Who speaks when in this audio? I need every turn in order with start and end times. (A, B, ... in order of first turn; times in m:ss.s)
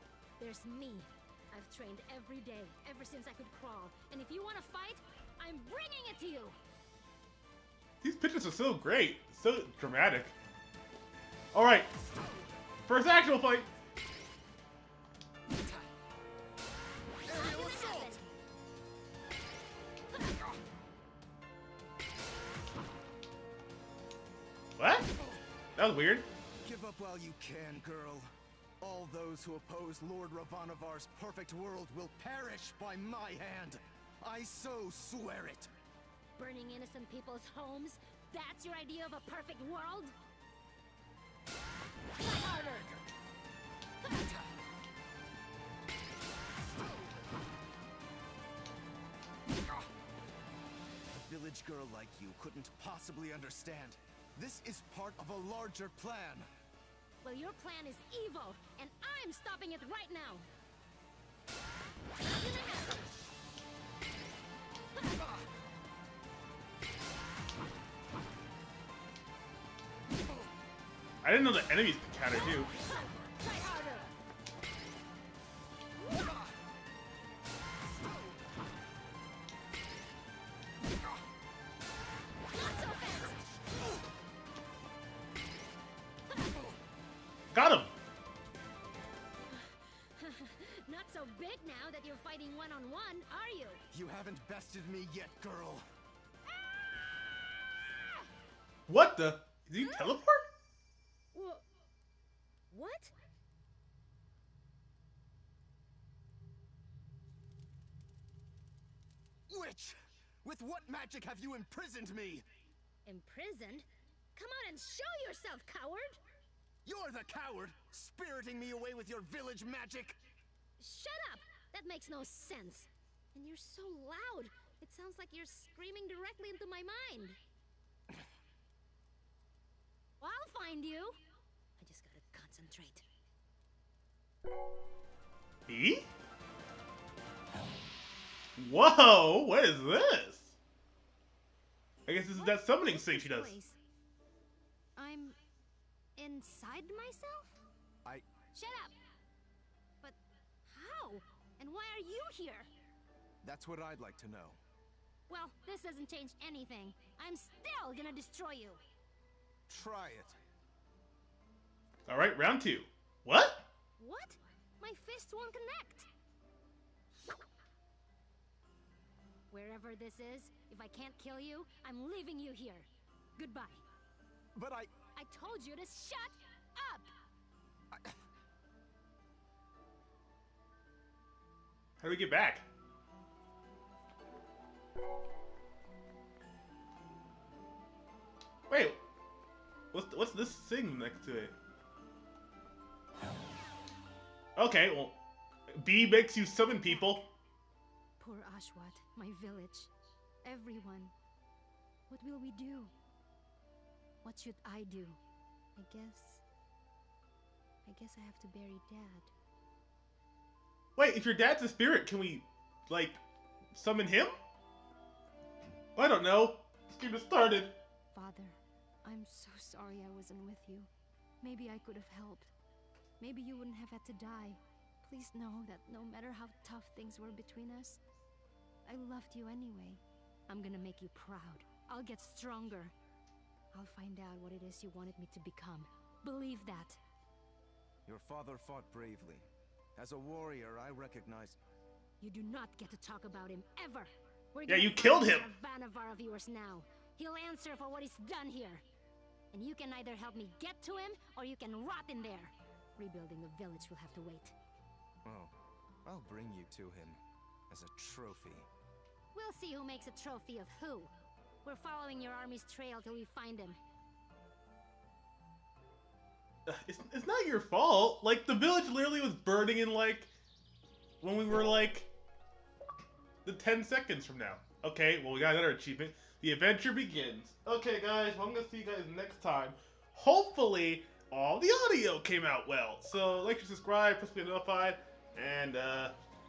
0:00.4-0:06.6 A
0:08.0-0:10.3 B
0:11.5-0:11.9 B
0:12.9-0:13.7 B
0:17.3-0:18.2 C
0:17.3-0:18.2 A
0:24.8-0:25.1 B
0:25.8-0:26.3 B
0:26.6-0:28.3 C
0:28.8-0:35.7 C
0:36.4-0:40.1 A
0:42.2-0:43.0 A
0:44.0-0:44.4 A
0:51.1-0:56.5 C
0:57.2-1:00.4 A
1:02.4-1:03.0 A
1:11.2-1:12.7 B
1:12.8-1:14.1 A
1:16.0-1:16.4 A
1:22.5-1:23.4 A
1:27.5-1:27.9 B
1:29.5-1:33.8 A
1:33.9-1:35.8 C
1:36.5-1:38.3 A
1:38.9-1:40.5 B
1:39.8-1:40.2 A
1:41.3-1:41.6 A
1:42.7-1:43.1 A
1:49.5-1:52.4 C
1:53.0-1:56.2 A
1:56.8-2:00.2 C
2:00.8-2:07.4 A
2:10.2-2:11.2 A
2:11.8-2:13.0 A
2:15.7-2:16.1 B
2:18.6-2:20.6 B
2:22.0-2:23.5 B
2:22.3-2:23.8 A
2:25.0-2:25.4 A
2:26.2-2:27.6 A
2:28.5-2:28.9 A
2:30.0-2:32.7 A
2:33.4-2:34.6 C
2:35.3-2:38.8 A
2:39.7-2:40.4 C
2:42.0-2:43.7 B
2:44.0-2:46.1 A
2:49.5-2:53.8 A
2:54.5-2:54.9 C
2:55.1-2:57.1 A
3:02.0-3:02.7 B
3:08.7-3:09.0 B
3:09.9-3:11.5 B
3:14.6-3:15.2 B
3:15.7-3:17.3 B
3:16.8-3:17.2 A
3:18.2-3:19.9 A
3:20.4-3:21.1 A
3:22.1-3:22.9 A
3:24.2-3:25.2 A
3:25.8-3:26.4 A
3:27.8-3:29.3 A
3:31.0-3:33.2 B
3:33.7-3:34.3 B
3:36.0-3:37.8 B
3:38.1-3:40.9 A
3:41.4-3:42.5 A
3:43.2-3:48.0 A
3:48.8-3:52.9 A
3:53.7-3:57.0 A
3:58.0-4:01.6 C
4:02.2-4:08.8 A
4:04.7-4:05.5 B
4:09.5-4:14.5 A
4:15.2-4:15.5 C
4:16.0-4:18.7 C
4:19.3-4:21.1 A
4:21.6-4:23.8 A
4:26.6-4:30.3 B
4:31.2-4:32.1 B
4:33.4-4:46.1 B